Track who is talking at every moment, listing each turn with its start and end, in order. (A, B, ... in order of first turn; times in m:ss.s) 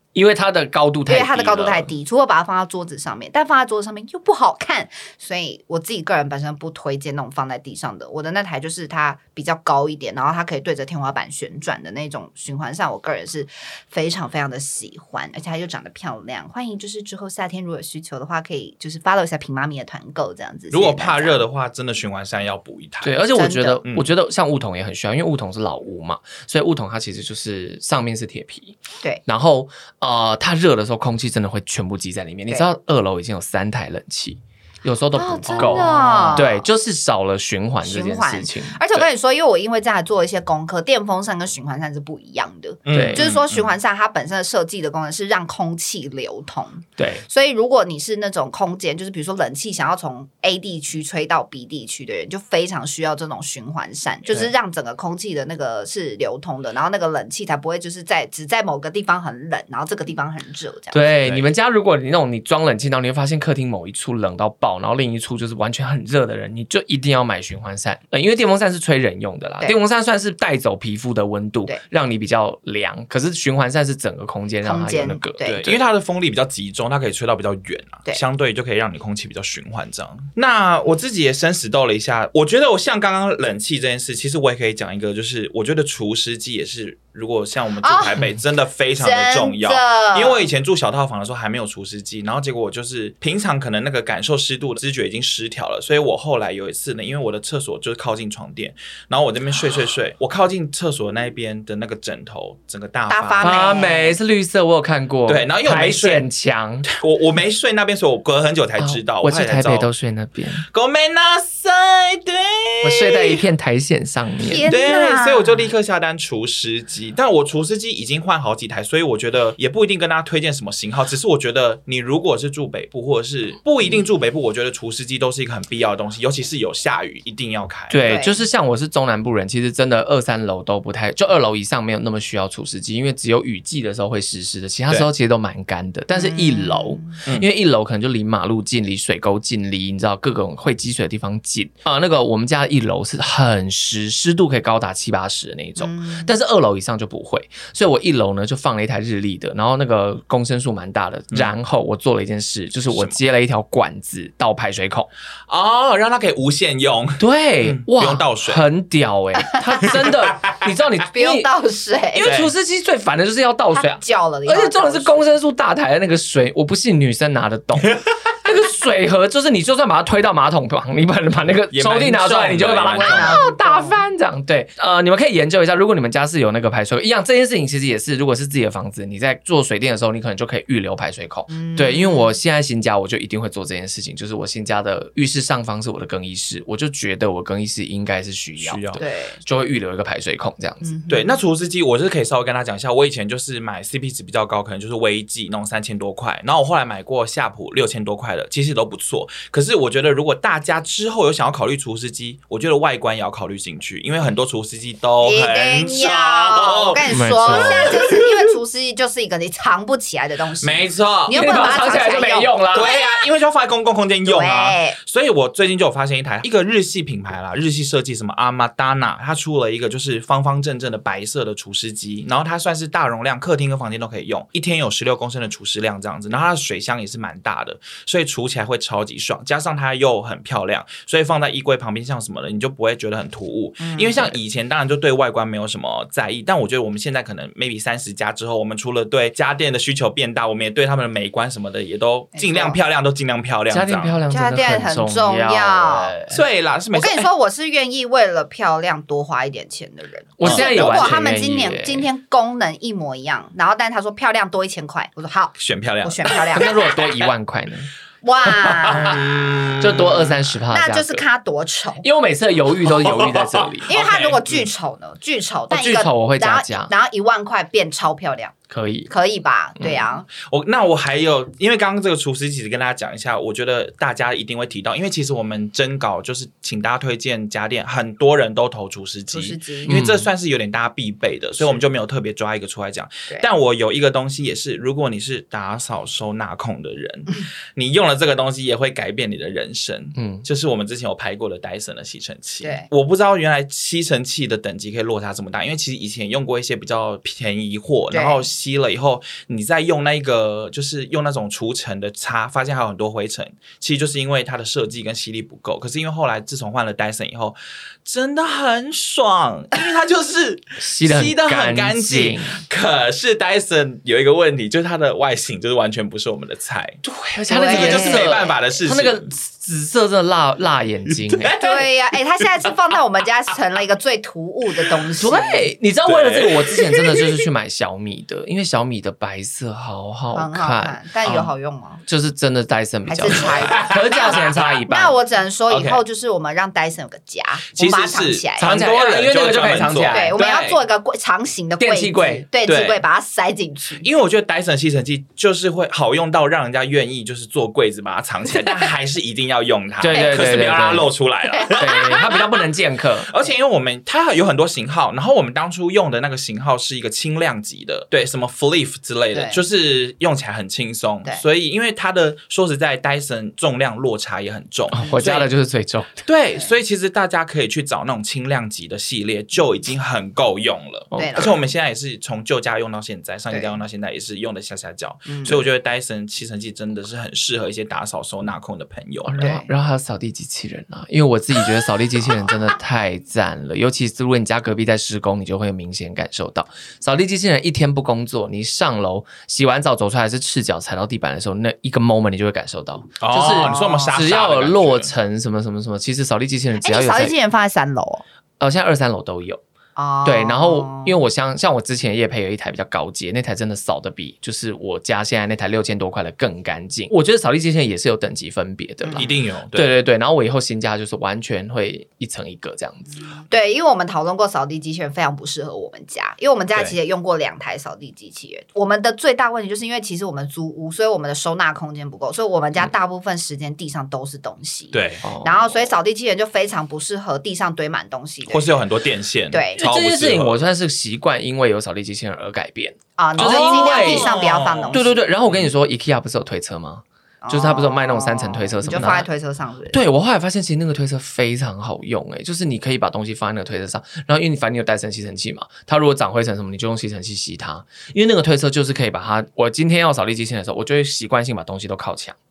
0:00.2-0:01.9 A
0:01.1-0:21.4 B
0:20.7-0:23.2 C
0:23.0-0:39.1 A
0:23.4-0:23.8 B
0:23.8-0:24.1 C
0:35.2-0:36.6 B
0:35.5-0:36.4 C
0:37.8-1:01.0 B
0:42.9-0:43.7 C
0:42.9-0:43.3 A
0:47.0-0:47.2 A
1:00.9-1:15.8 A
1:14.6-1:15.6 B
1:15.5-1:43.8 C
1:27.8-1:28.2 B
1:29.0-1:30.4 B
1:43.1-1:44.2 B
1:43.4-1:46.9 A
1:45.3-1:46.2 C
1:46.9-1:49.9 C
1:48.8-1:50.6 A
1:50.7-1:53.4 C
1:52.8-1:54.7 A
1:54.4-1:55.7 B
1:54.7-2:08.0 C
2:07.9-2:35.1 A
2:08.0-2:08.4 B
2:16.1-2:17.2 B
2:25.8-2:26.3 B
2:32.9-2:33.2 C
2:35.5-2:38.6 C
2:37.2-2:41.5 A
2:39.4-2:39.7 B
2:41.1-2:42.4 B
2:42.1-3:10.9 A
2:42.2-2:42.5 C
2:43.7-2:45.3 B
2:51.7-2:53.4 C
2:52.9-2:54.0 B
3:01.5-3:02.3 B
3:08.6-3:09.0 C
3:09.0-3:09.4 B
3:10.8-3:11.4 B
3:11.1-3:28.5 C
3:25.2-3:33.3 B
3:27.1-3:28.0 A
3:30.6-3:31.9 C
3:31.3-3:32.9 A
3:32.7-4:04.2 C
3:34.2-3:35.0 B
3:53.8-3:54.3 B
4:02.4-4:02.8 B
4:03.7-4:06.4 A
4:04.3-4:06.2 B
4:06.3-4:07.3 C
4:06.9-4:16.8 B
4:10.4-4:12.1 A
4:10.4-4:11.2 C
4:15.6-4:16.8 C
4:16.5-4:17.9 A
4:18.2-4:19.2 B
4:18.5-4:19.2 A
4:18.9-4:20.4 C
4:19.8-4:21.2 A
4:20.7-4:22.0 B
4:22.0-4:23.9 A
4:22.8-4:24.7 C
4:23.9-4:28.6 B
4:25.7-4:26.9 A
4:28.7-4:29.1 A
4:29.1-4:30.3 B
4:29.8-4:30.0 A
4:30.4-5:17.0 C
4:39.3-4:40.0 B
4:39.9-4:40.3 A
4:50.2-4:50.5 A
4:52.6-4:52.9 B
4:58.1-4:58.4 B
5:10.8-5:12.6 A
5:17.0-5:21.6 A
5:17.5-5:18.6 B
5:17.6-5:19.3 C
5:21.1-5:21.9 C
5:21.6-5:25.7 B
5:25.2-5:31.0 A
5:26.1-5:27.4 C
5:30.4-5:32.0 B
5:31.2-5:31.5 C
5:32.1-5:35.2 A
5:33.1-5:38.7 B
5:33.4-5:34.0 C
5:35.7-5:36.0 C
5:37.7-5:40.8 C
5:38.6-5:40.4 A
5:40.1-5:44.1 B
5:41.8-5:42.5 A
5:42.7-5:43.0 C
5:44.0-5:52.4 C
5:48.6-5:48.9 B
5:50.0-5:51.2 A
5:50.1-5:50.4 B
5:51.5-5:52.4 B
5:51.7-5:53.3 A
5:53.3-6:05.5 C
5:59.3-5:59.6 B
6:04.9-6:06.2 A
6:06.2-6:19.6 C
6:11.1-6:11.4 A
6:11.2-6:11.6 B
6:13.5-6:13.8 B
6:15.3-6:15.6 B
6:19.2-6:37.3 A
6:19.4-6:19.7 B
6:33.2-6:35.1 C
6:33.4-6:34.1 B
6:36.8-6:38.2 B
6:38.6-6:39.6 A
6:40.0-6:41.1 B
6:40.2-6:53.2 A
6:49.0-6:49.3 B
6:49.2-6:49.9 C
6:53.5-7:08.8 B
7:04.9-7:05.3 C
7:05.2-7:05.8 A
7:08.5-7:10.6 C
7:09.5-7:09.9 B
7:09.8-7:14.3 A
7:13.2-7:15.2 B
7:13.4-7:15.7 C
7:14.9-7:19.3 A
7:17.4-7:20.0 B
7:19.9-7:32.4 A